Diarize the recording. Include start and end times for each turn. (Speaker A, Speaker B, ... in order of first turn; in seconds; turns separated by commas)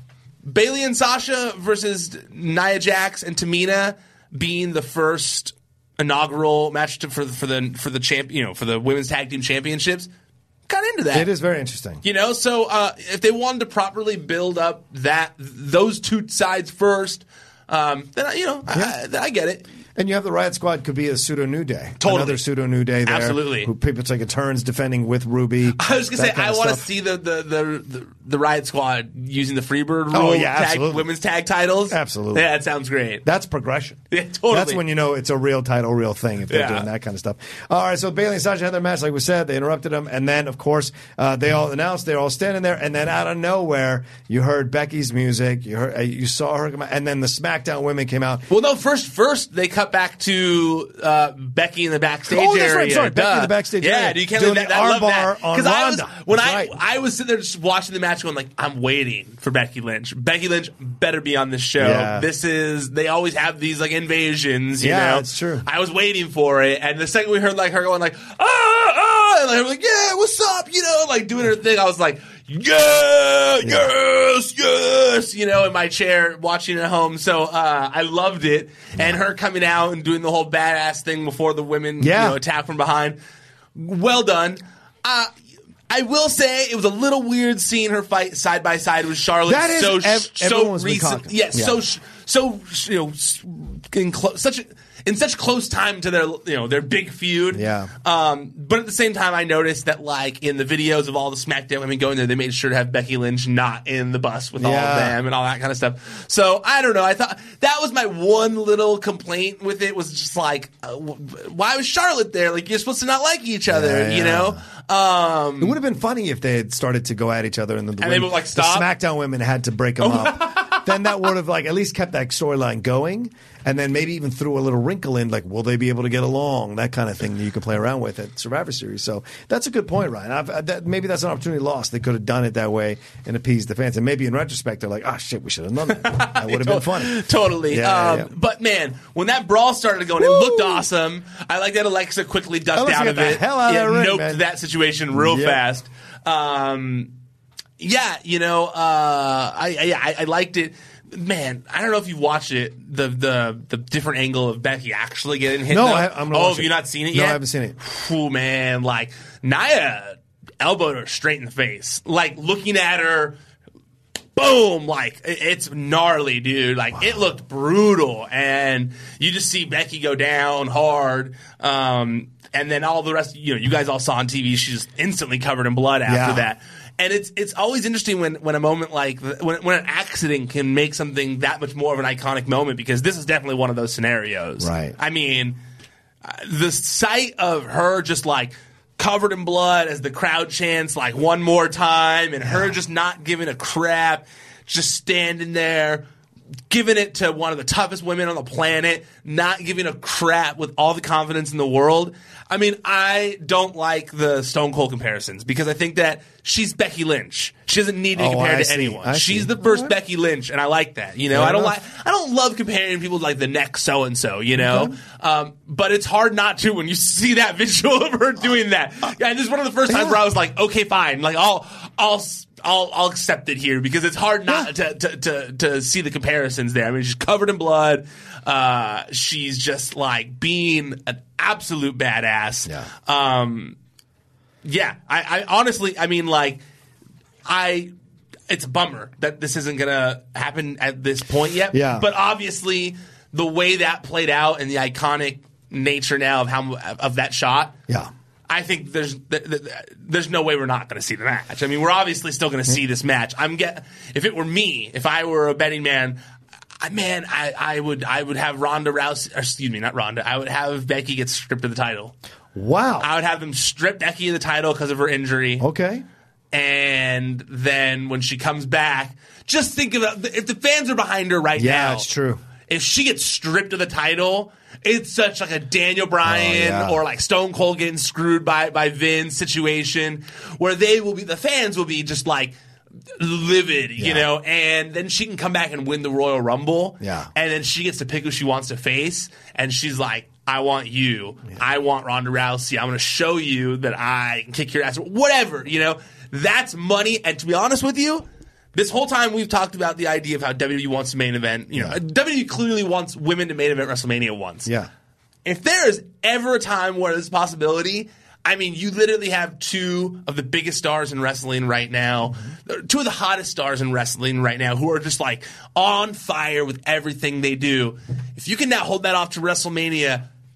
Speaker A: 0.5-10.1, Speaker A: 10.7-11.3, Speaker B: 11.1-12.0, Speaker A: 12.0-19.7, Speaker B: 20.0-26.8, Speaker A: 22.0-22.4, Speaker A: 23.0-23.7, Speaker A: 25.8-33.2, Speaker B: 30.1-31.1, Speaker B: 31.9-32.5, Speaker B: 33.2-48.5, Speaker A: 34.1-34.8, Speaker A: 36.5-36.9, Speaker A: 48.5-83.2, Speaker B: 52.3-56.7, Speaker B: 61.8-62.3, Speaker B: 64.8-65.7, Speaker B: 73.6-73.9, Speaker B: 82.0-82.4, Speaker A: 83.8-85.3, Speaker A: 85.9-115.8, Speaker B: 89.5-91.8, Speaker B: 97.5-97.9, Speaker B: 104.6-105.2, Speaker B: 113.7-114.6, Speaker B: 115.6-138.3, Speaker A: 118.0-118.9, Speaker A: 120.0-121.2, Speaker A: 136.1-147.1, Speaker B: 140.2-140.8, Speaker B: 142.7-144.4, Speaker B: 145.1-145.6, Speaker A: 147.8-163.4, Speaker B: 155.7-157.8, Speaker A: 164.4-185.6, Speaker B: 176.1-176.5, Speaker B: 184.6-184.9, Speaker A: 186.2-196.1, Speaker B: 192.4-192.7, Speaker A: 196.7-233.8, Speaker B: 208.2-209.9, Speaker B: 211.3-211.7, Speaker B: 214.6-214.9, Speaker B: 219.9-220.2, Speaker A: 234.7-236.6, Speaker A: 237.5-237.9, Speaker A: 238.5-247.8, Speaker B: 241.7-242.1, Speaker A: 248.5-256.2, Speaker A: 256.8-262.1, Speaker B: 262.6-263.1, Speaker A: 263.0-265.6, Speaker B: 265.6-266.0, Speaker A: 266.5-272.1, Speaker B: 271.6-272.4, Speaker A: 272.7-282.6, Speaker B: 276.2-277.0, Speaker A: 283.1-304.7, Speaker B: 284.0-284.3, Speaker B: 287.0-287.3, Speaker A: 305.4-320.3